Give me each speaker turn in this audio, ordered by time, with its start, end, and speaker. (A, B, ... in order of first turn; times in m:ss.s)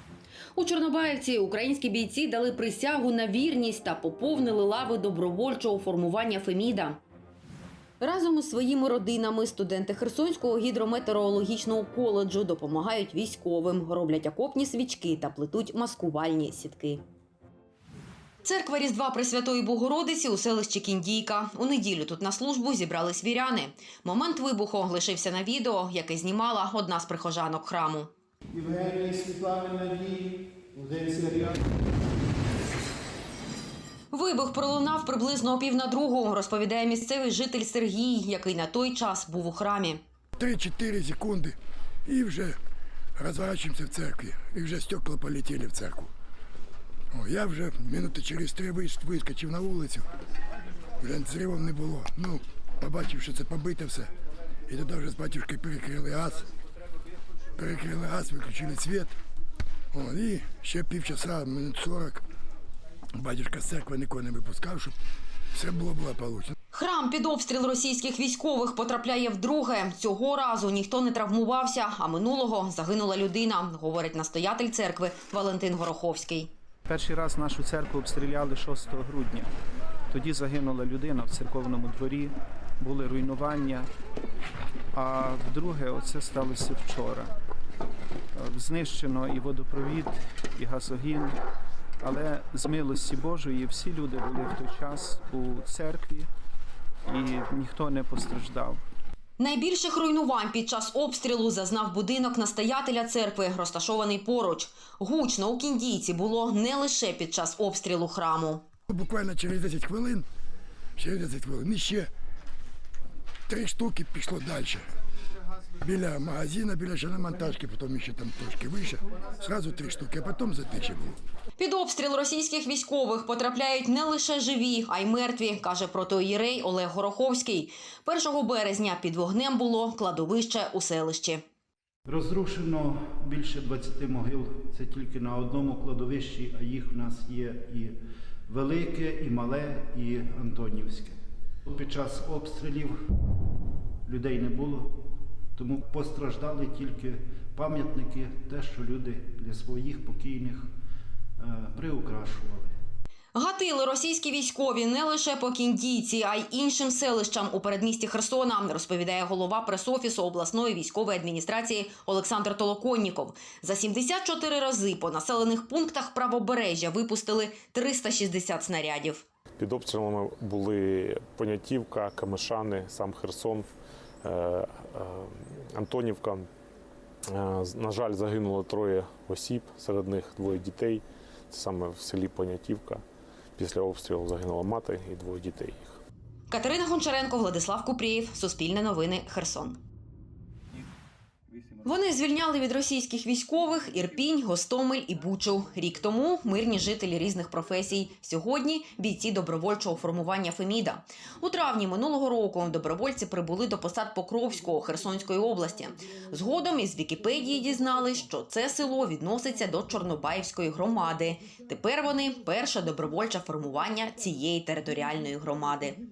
0:00.5-0:07.0 A
0:08.0-0:17.0 A
0:18.4-0:28.1 A
0:28.7-0:30.0 B
0:31.0-0:31.5 B
0:34.1-0:40.0 A
0:40.4-0:42.6 C
0:43.2-0:46.1 C
0:47.1-0:50.1 C
0:51.0-0:54.1 C
0:54.7-0:56.5 C
0:57.6-0:59.1 C
0:59.9-1:02.2 C
1:03.2-1:05.0 C
1:05.5-1:06.5 C
1:06.7-1:16.5 A
1:16.9-1:19.5 B
1:20.1-1:23.9 B
1:25.0-1:27.3 B
1:28.4-1:31.4 B
1:32.0-1:36.3 B
1:37.1-1:38.8 B
1:39.4-1:48.7 A
1:48.9-1:50.2 C
1:51.0-1:52.1 C
1:53.5-1:54.8 C
1:55.8-2:01.2 C
2:01.6-2:11.4 A
2:12.1-2:18.0 D
2:18.5-2:21.2 D
2:21.7-2:22.9 D
2:24.1-2:25.0 D
2:25.6-2:30.7 D
2:31.4-2:32.7 D
2:33.3-2:49.2 A
2:49.6-2:53.7 E
2:54.2-2:56.5 E
2:57.3-3:03.0 E
3:03.6-3:06.0 E
3:06.5-3:09.8 A
3:11.8-3:36.0 A